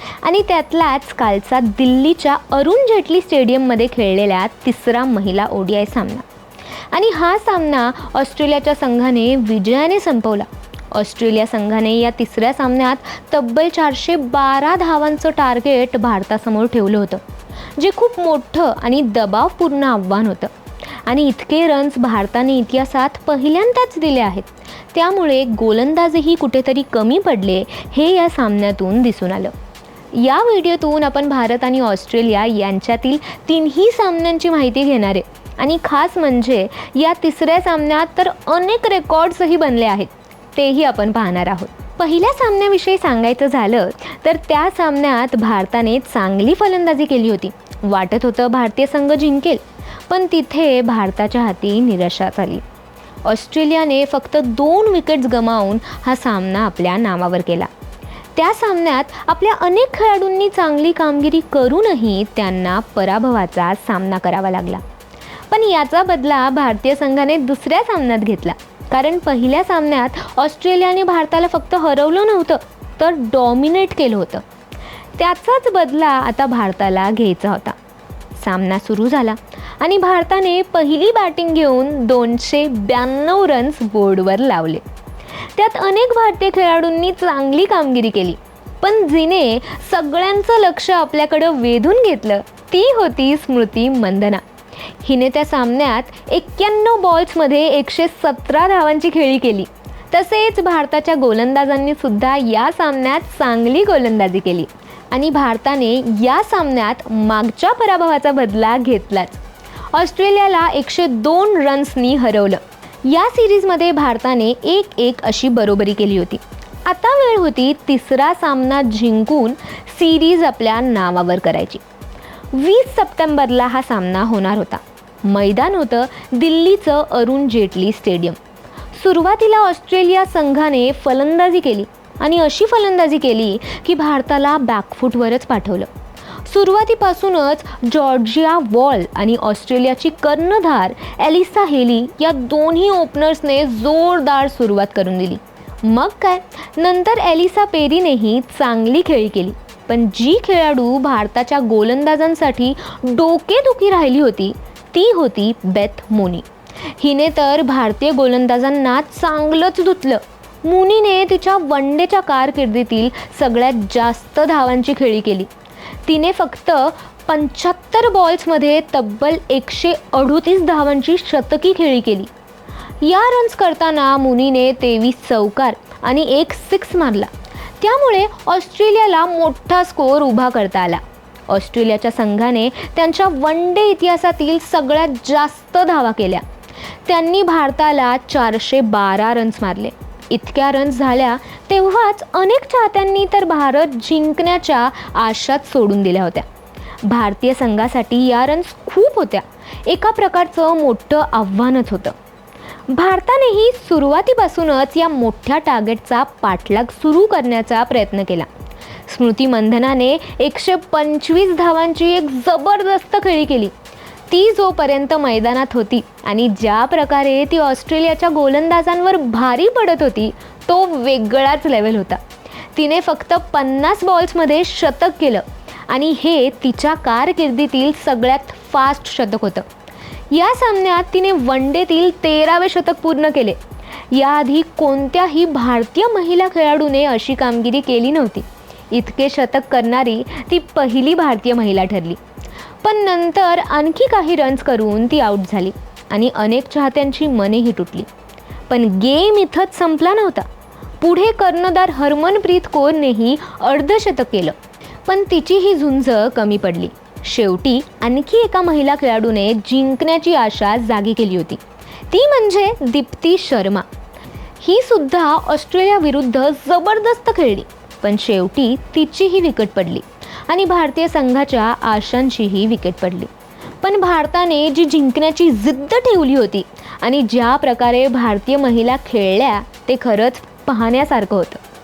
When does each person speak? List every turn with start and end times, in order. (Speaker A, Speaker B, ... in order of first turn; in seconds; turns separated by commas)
Speaker A: 0.2-6.2, Speaker A: 6.9-17.2, Speaker A: 17.8-20.5, Speaker A: 21.1-29.5, Speaker A: 30.1-52.6, Speaker A: 53.2-57.7, Speaker A: 58.3-64.8, Speaker A: 65.5-74.4, Speaker A: 75.2-77.8, Speaker A: 78.3-84.8, Speaker A: 85.5-94.4, Speaker A: 95.0-109.4, Speaker A: 109.9-121.8, Speaker A: 122.5-128.4, Speaker A: 128.9-135.9, Speaker A: 136.4-165.5, Speaker A: 166.1-172.3, Speaker A: 173.0-186.4, Speaker A: 187.1-196.4, Speaker A: 197.0-202.2, Speaker A: 202.9-208.5, Speaker A: 209.1-213.7, Speaker A: 214.3-222.2, Speaker A: 222.7-229.7, Speaker A: 230.3-233.6, Speaker A: 234.1-242.2, Speaker A: 242.8-248.1, Speaker A: 248.7-250.5, Speaker A: 251.0-263.9, Speaker A: 264.6-273.3, Speaker A: 273.8-281.6